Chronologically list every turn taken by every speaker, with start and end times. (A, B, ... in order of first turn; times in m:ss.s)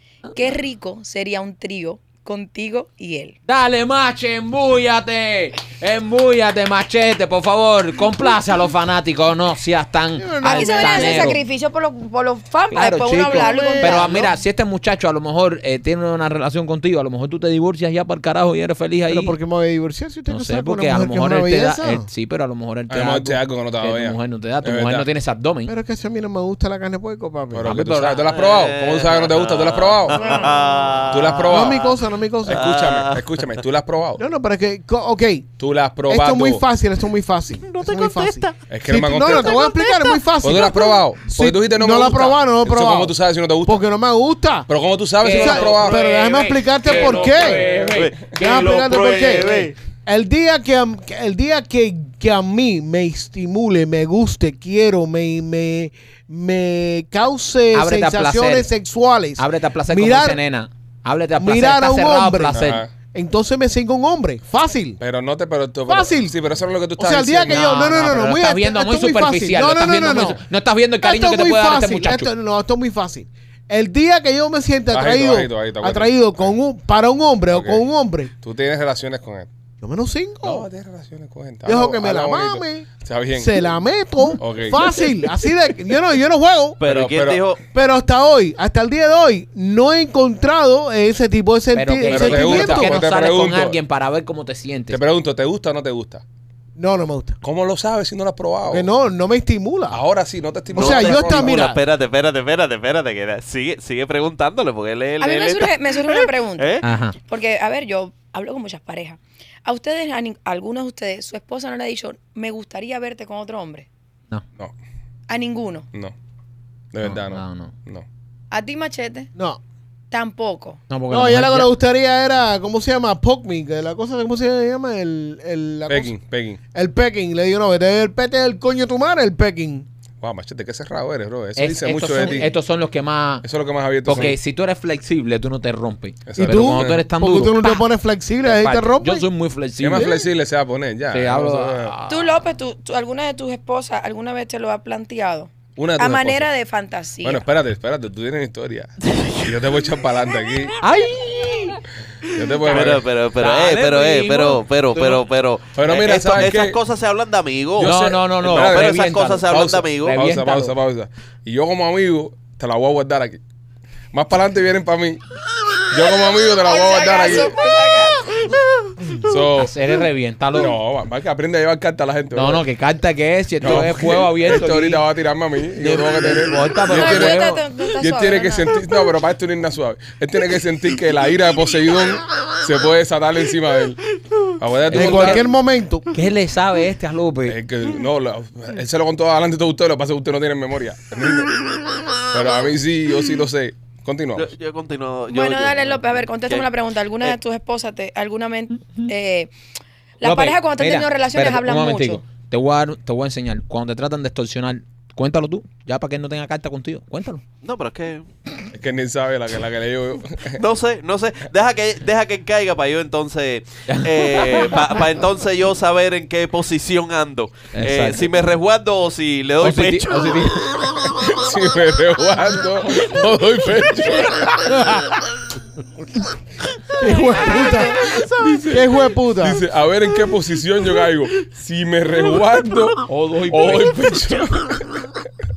0:00.3-0:03.4 A
0:03.5-0:11.4 B
0:10.2-0:11.4 C
0:10.4-0:14.4 A
0:12.7-0:19.4 B
0:13.1-0:14.2 C
0:19.1-0:22.1 C
0:20.3-0:25.7 B
0:22.9-0:25.1 D
0:25.7-0:27.7 C
0:27.5-0:30.2 D
0:27.6-0:28.2 B
0:28.2-0:31.9 E
0:30.1-0:30.9 A
0:31.1-0:31.9 D
0:31.4-0:32.6 C
0:32.4-0:34.2 D
0:32.5-0:33.3 E
0:34.2-0:35.5 C
0:35.6-0:36.6 D
0:36.1-0:44.7 C
0:38.7-0:39.6 D
0:40.4-0:43.8 D
0:44.7-0:46.0 D
0:45.2-0:48.7 B
0:45.2-0:47.6 C
0:46.9-0:49.7 E
0:47.7-0:48.0 D
0:48.3-1:00.4 C
0:57.7-0:58.7 B
0:59.4-1:02.8 B
1:01.4-1:05.0 C
1:02.5-1:02.9 D
1:05.0-1:07.7 D
1:05.9-1:06.3 C
1:07.0-1:10.4 C
1:07.5-1:12.3 B
1:11.0-1:18.3 C
1:14.9-1:16.6 D
1:17.5-1:17.8 D
1:18.4-1:19.5 D
1:19.8-1:20.7 C
1:20.4-1:23.6 D
1:21.6-1:26.8 C
1:24.4-1:25.1 D
1:26.8-1:27.6 E
1:26.8-1:27.5 D
1:27.7-1:33.0 C
1:31.7-1:35.0 B
1:32.1-1:33.8 D
1:34.9-1:36.2 D
1:36.8-1:37.4 C
1:37.4-1:38.9 D
1:38.7-1:40.0 C
1:39.9-1:41.6 D
1:40.7-1:41.8 C
1:40.8-1:46.8 E
1:45.2-1:53.9 A
1:46.8-1:47.1 B
1:55.3-1:55.9 A
1:56.9-1:58.0 D
1:57.0-1:57.7 B
1:58.5-1:59.3 A
2:00.1-2:00.8 A
2:00.9-2:01.7 B
2:01.1-2:06.1 C
2:05.9-2:06.6 D
2:06.7-2:09.8 C
2:10.2-2:12.5 D
2:11.6-2:13.4 B
2:13.4-2:14.4 D
2:14.0-2:17.9 B
2:16.2-2:17.0 D
2:16.4-2:19.3 C
2:18.4-2:20.2 B
2:19.8-2:21.9 D
2:21.1-2:22.4 B
2:22.1-2:27.4 A
2:25.8-2:26.5 D
2:27.2-2:30.8 D
2:30.8-2:31.8 B
2:32.3-2:33.1 D
2:32.6-2:40.2 E
2:32.8-2:35.2 B
2:35.7-2:36.8 D
2:37.8-2:43.4 D
2:37.8-2:39.5 B
2:40.0-2:40.7 B
2:44.1-2:45.2 D
2:45.8-2:47.5 D
2:46.6-2:48.5 A
2:49.2-2:49.7 D
2:49.6-2:50.8 B
2:50.5-2:52.6 D
2:52.3-2:55.0 B
2:53.6-3:05.4 D
2:55.8-2:57.6 B
2:56.9-2:58.8 A
3:04.9-3:05.4 B
3:04.9-3:06.1 C
3:06.1-3:07.6 B
3:07.4-3:11.6 D
3:12.2-3:14.5 D
3:14.4-3:16.7 E
3:15.3-3:19.5 A
3:20.2-3:22.2 A
3:20.2-3:27.4 B
3:27.6-3:28.2 E
3:28.7-3:30.6 D
3:30.6-3:40.7 E
3:33.9-3:34.9 B
3:37.7-3:38.3 B
3:39.6-3:40.8 B
3:41.0-3:44.5 D
3:47.0-3:48.1 C
3:47.0-3:48.2 B
3:48.2-3:55.2 D
3:48.6-3:49.6 C
3:53.0-3:54.4 B